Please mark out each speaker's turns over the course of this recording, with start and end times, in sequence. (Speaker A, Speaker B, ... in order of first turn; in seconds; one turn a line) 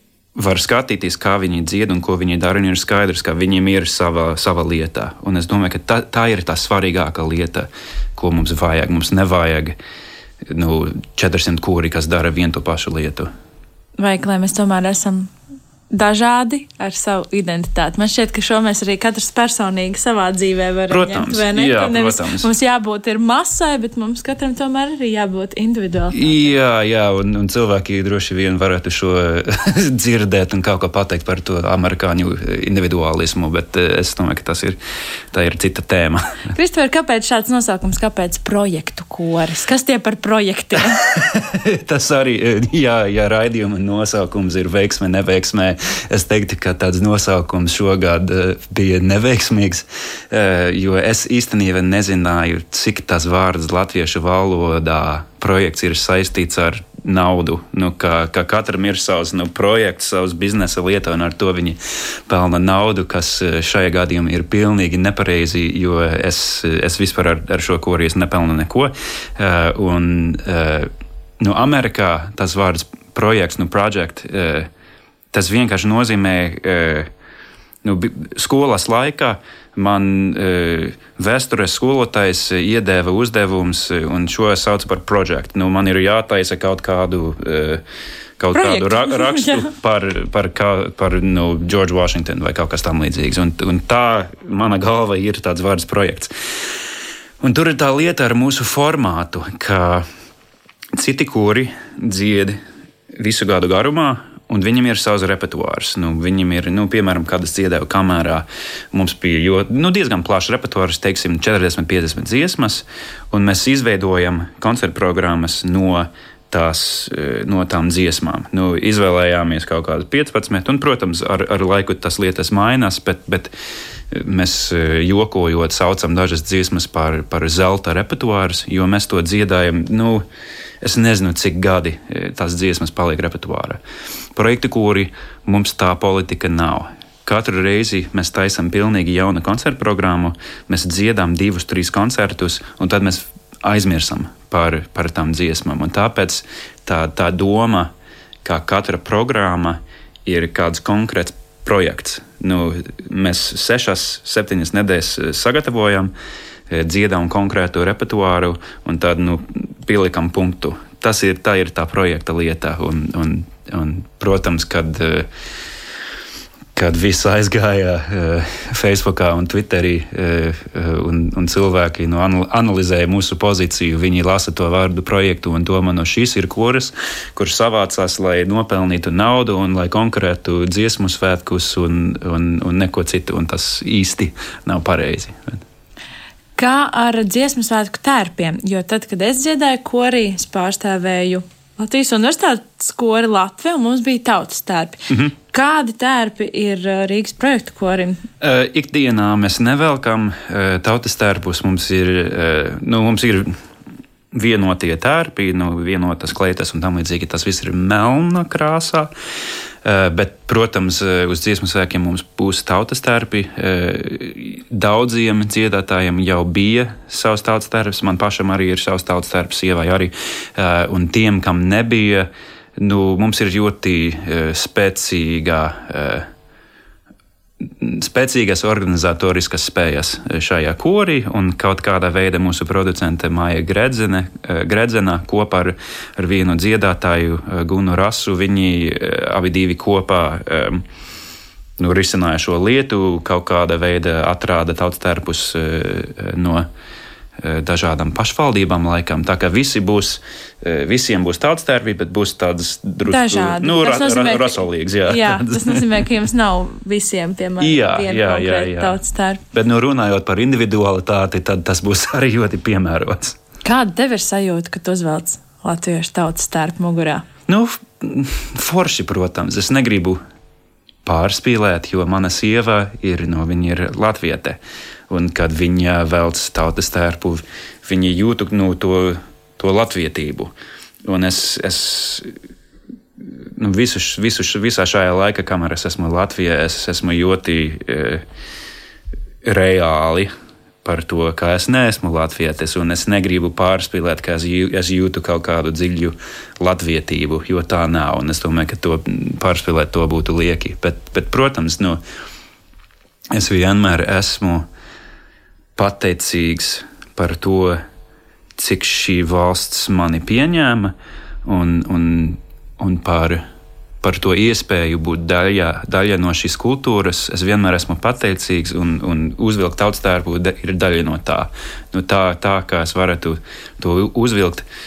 Speaker A: 0.3-9.8
Speaker A: 10.4-13.3
Speaker B: 14.0-15.3
Speaker B: 15.9-26.3
Speaker A: 20.9-22.5
Speaker A: 26.1-34.8
Speaker A: 35.3-36.5
Speaker B: 36.5-41.0
Speaker A: 41.0-74.7
Speaker A: 75.3-77.1
Speaker A: 77.8-87.8
Speaker A: 88.4-96.3
Speaker B: 88.5-89.7
Speaker A: 97.4-100.0
Speaker A: 100.9-102.6
Speaker A: 103.1-123.5
Speaker A: 124.1-130.2
Speaker A: 130.8-133.8
Speaker A: 134.3-147.9
Speaker A: 148.4-156.1
Speaker A: 156.7-165.3
Speaker A: 166.7-185.6
Speaker B: 186.6-198.3
Speaker A: 198.4-203.6
Speaker A: 204.3-209.1
Speaker A: 209.8-226.3
Speaker A: 227.6-240.8
Speaker A: 241.8-246.7
Speaker A: 247.4-255.8
Speaker B: 253.1-259.4
Speaker A: 257.6-259.0
Speaker A: 259.5-263.4
Speaker B: 263.6-267.2
Speaker A: 267.5-270.2
Speaker A: 271.0-280.5
Speaker A: 281.0-282.3
Speaker A: 283.2-288.2
Speaker A: 289.4-290.3
Speaker A: 290.8-302.0
Speaker A: 303.3-304.6
Speaker A: 305.8-307.8
Speaker A: 308.6-310.9
Speaker A: 311.4-313.4
Speaker A: 314.0-324.6